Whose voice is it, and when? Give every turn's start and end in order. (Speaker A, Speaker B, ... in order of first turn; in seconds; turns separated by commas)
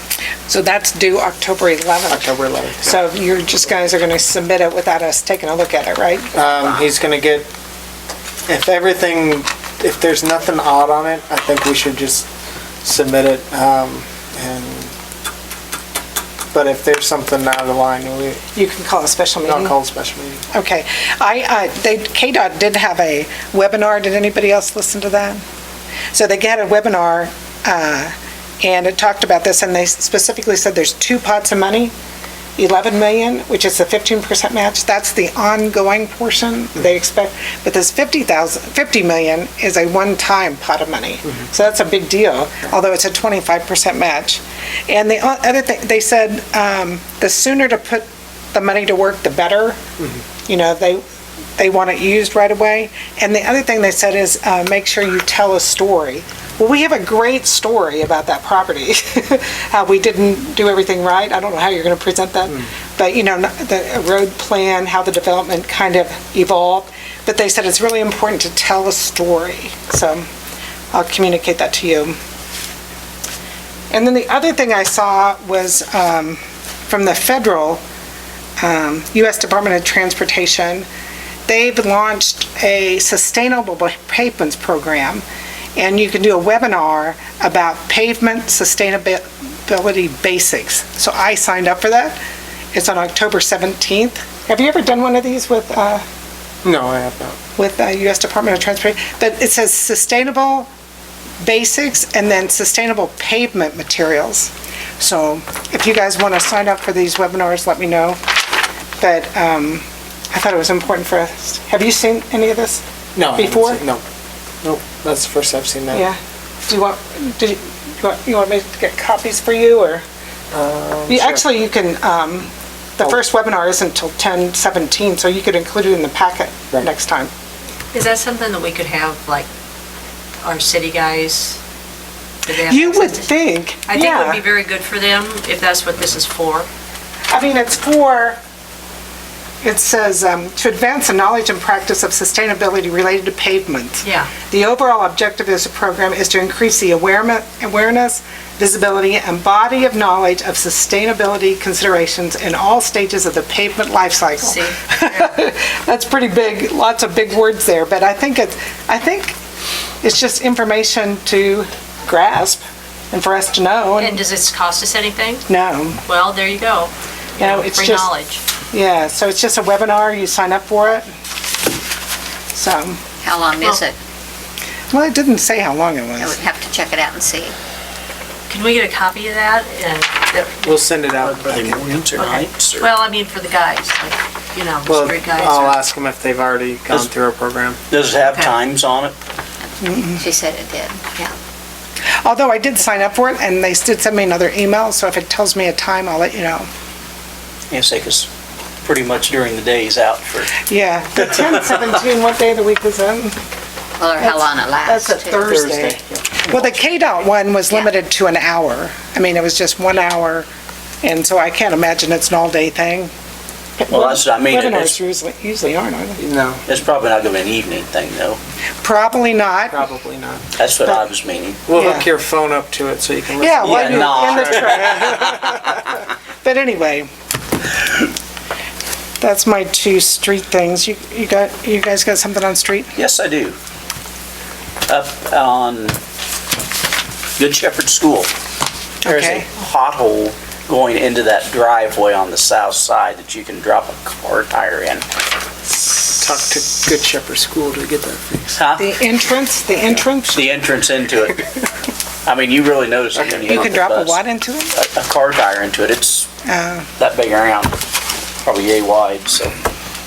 Speaker A: 0.5-2.3, Speaker B: 2.1-3.0, Speaker A: 2.8-6.3, Speaker B: 6.3-7.5, Speaker B: 8.5-12.3, Speaker B: 12.8-14.9, Speaker B: 16.5-18.4, Speaker A: 18.5-19.8, Speaker B: 19.4-20.4, Speaker A: 20.5-25.4, Speaker A: 26.1-31.9, Speaker A: 32.6-49.8, Speaker A: 50.5-51.0, Speaker A: 51.6-70.3, Speaker A: 70.9-72.2, Speaker A: 73.9-77.8, Speaker A: 78.6-80.9, Speaker A: 81.5-85.2, Speaker A: 85.8-92.2, Speaker A: 92.7-96.0, Speaker B: 96.6-97.4, Speaker A: 97.6-100.7, Speaker A: 101.4-108.2, Speaker A: 109.0-112.8, Speaker B: 113.1-114.0, Speaker A: 113.3-113.8, Speaker B: 114.6-116.0, Speaker A: 115.9-120.0, Speaker B: 120.5-121.4, Speaker A: 121.1-127.3, Speaker C: 127.9-129.5, Speaker C: 130.4-131.6, Speaker C: 132.4-133.3, Speaker A: 132.6-134.4, Speaker C: 133.9-136.7, Speaker A: 137.3-138.4, Speaker A: 139.6-159.4, Speaker C: 144.0-144.3, Speaker C: 154.4-155.3, Speaker A: 160.0-164.2, Speaker C: 164.0-165.4, Speaker A: 165.5-166.0, Speaker C: 166.1-168.4, Speaker A: 167.4-168.1, Speaker A: 168.7-171.1, Speaker A: 172.5-173.0, Speaker D: 173.2-174.0, Speaker A: 174.9-176.4, Speaker D: 176.2-177.6, Speaker C: 178.5-180.8, Speaker B: 180.6-182.1, Speaker E: 181.2-182.9, Speaker C: 182.2-185.8, Speaker B: 184.9-187.8, Speaker E: 187.9-189.2, Speaker C: 188.2-188.5, Speaker A: 189.8-190.2, Speaker D: 190.2-191.3, Speaker A: 192.2-196.7, Speaker E: 197.7-198.3, Speaker E: 198.8-200.6, Speaker A: 200.7-203.4, Speaker D: 204.0-205.4, Speaker A: 204.2-206.0, Speaker B: 205.5-206.8, Speaker A: 206.5-210.5, Speaker A: 211.0-213.1, Speaker A: 213.8-216.2, Speaker E: 213.9-215.0, Speaker B: 216.2-216.6, Speaker E: 216.7-218.4, Speaker A: 218.8-219.8, Speaker B: 219.7-220.4, Speaker E: 220.6-221.7, Speaker B: 221.7-224.9, Speaker A: 221.8-222.1, Speaker A: 223.4-227.1, Speaker E: 223.6-225.2, Speaker A: 229.2-232.9, Speaker E: 233.0-233.6, Speaker E: 234.9-236.0, Speaker E: 237.4-238.3, Speaker A: 239.0-239.5, Speaker E: 239.1-245.1, Speaker B: 245.8-248.6, Speaker E: 248.6-248.9, Speaker A: 248.8-250.4, Speaker E: 250.3-251.4, Speaker E: 252.2-254.2, Speaker B: 253.2-253.7, Speaker A: 253.4-254.7, Speaker E: 254.7-256.3, Speaker A: 256.4-256.9, Speaker E: 257.0-257.8, Speaker E: 258.4-259.5